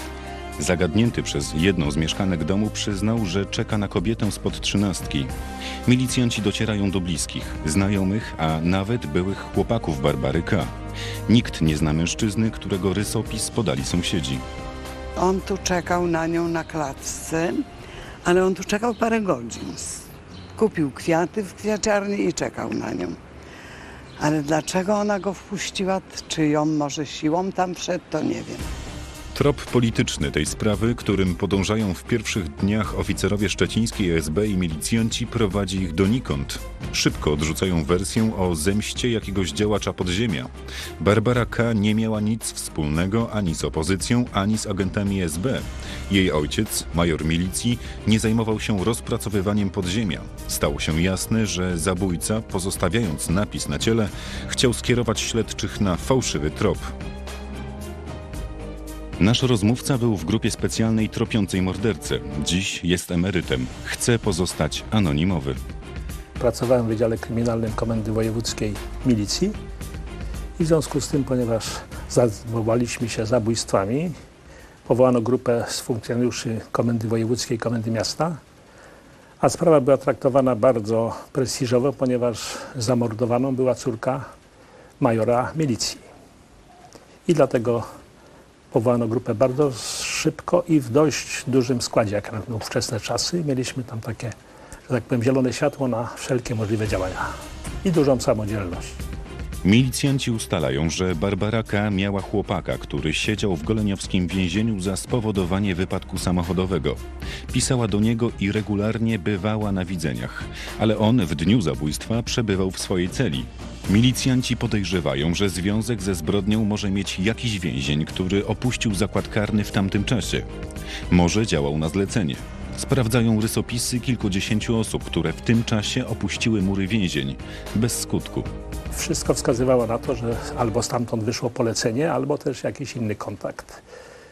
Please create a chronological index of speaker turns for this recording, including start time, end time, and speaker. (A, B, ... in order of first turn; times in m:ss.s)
0:00.6-0:05.3 A
0:05.8-0:10.7 A
0:11.3-0:14.5 A
0:15.2-0:17.6 B
0:18.2-0:23.2 B
0:24.2-0:28.7 B
0:29.3-0:56.9 A
0:59.2-1:05.6 A
1:06.4-1:09.6 C
1:10.6-1:14.1 C
1:14.8-1:18.4 C
1:19.4-1:24.2 C
1:25.0-1:26.0 C
1:27.2-1:27.8 C
1:28.7-1:34.3 C
1:34.9-1:37.3 C
1:37.8-1:38.9 C
1:39.6-2:00.5 A
2:01.1-2:08.5 A
2:08.9-2:13.8 C